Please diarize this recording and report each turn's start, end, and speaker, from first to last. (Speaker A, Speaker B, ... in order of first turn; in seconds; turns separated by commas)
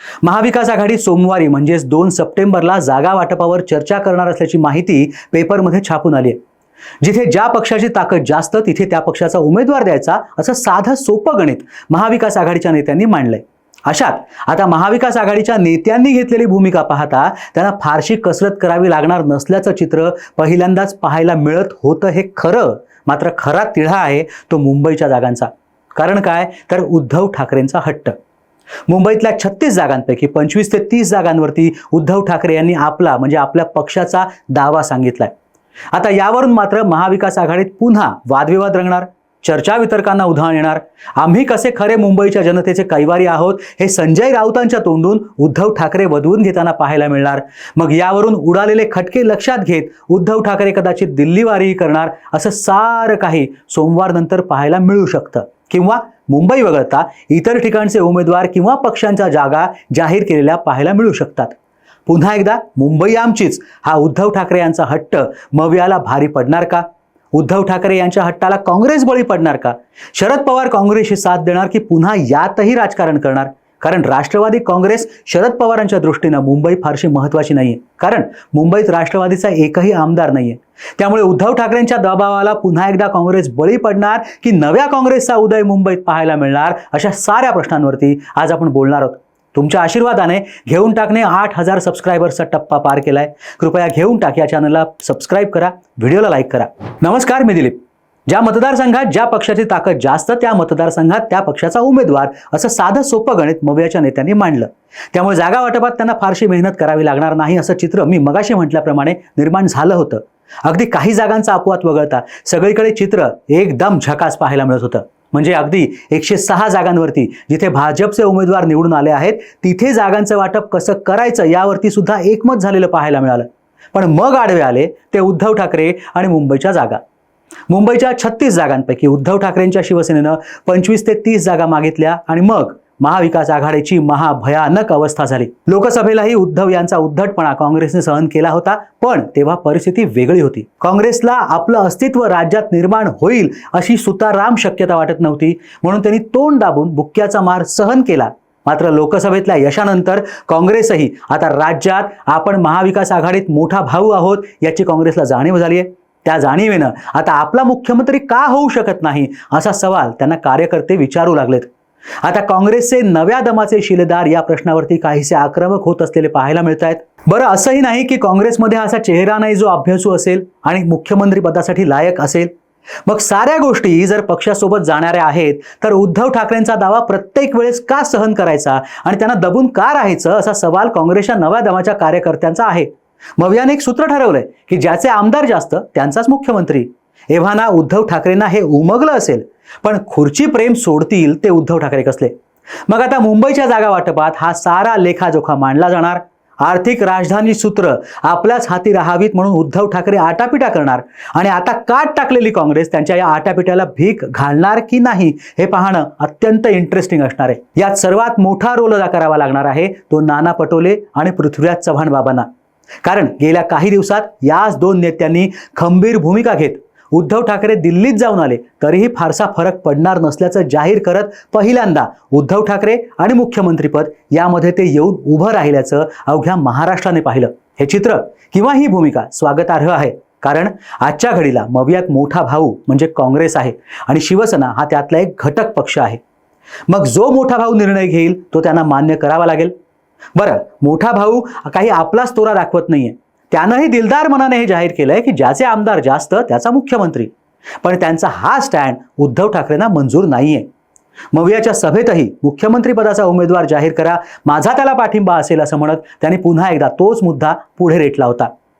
Speaker A: 0.2-6.4, Speaker A: 7.0-28.1, Speaker A: 28.9-35.3, Speaker A: 35.9-61.5, Speaker A: 62.0-127.0, Speaker A: 127.7-161.7, Speaker A: 162.2-172.5, Speaker A: 173.1-192.3, Speaker A: 192.9-212.5, Speaker A: 213.0-236.2, Speaker A: 236.9-239.7, Speaker A: 240.3-247.3, Speaker A: 247.8-250.7, Speaker A: 251.3-258.5